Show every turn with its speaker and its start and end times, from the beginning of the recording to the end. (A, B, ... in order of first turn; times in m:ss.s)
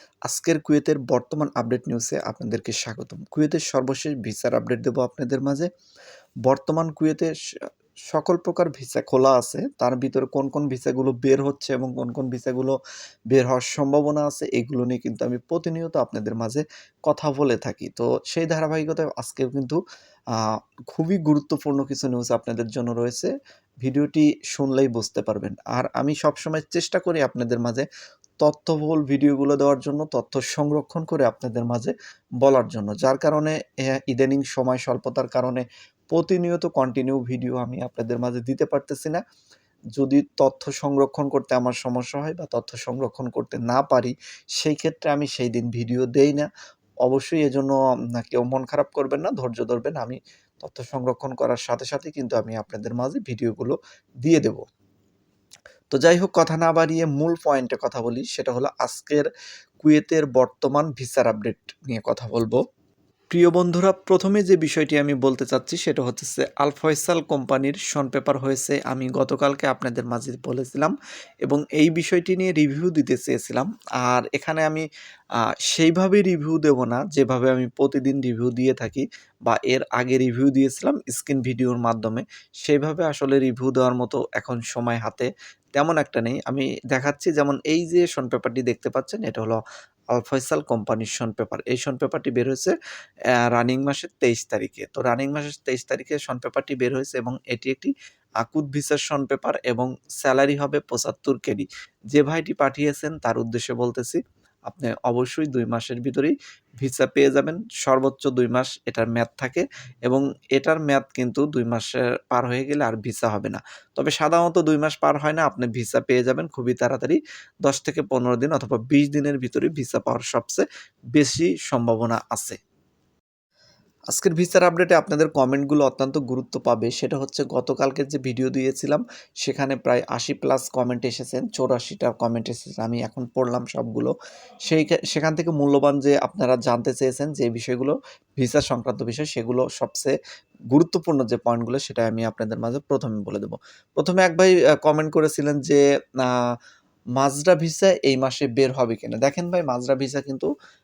0:00.3-0:05.7 A
0:06.4-0:07.3 A
0:08.1-0:12.8 A
0:13.3-0:19.8 A
0:20.3-0:23.3 A
0:23.8-0:27.8 A
0:28.4-0:39.2 A
0:39.9-0:46.5 A
0:47.0-0:54.6 A
0:55.9-0:59.3 A
0:59.8-1:02.6 A
1:03.3-1:10.9 A
1:11.4-1:14.8 A
1:15.7-1:29.6 A
1:30.1-1:32.7 A
1:33.5-2:00.6 A
2:01.1-2:02.6 A
2:04.1-2:14.1 A
2:14.7-2:20.1 A
2:20.7-2:26.5 A
2:27.2-2:30.5 A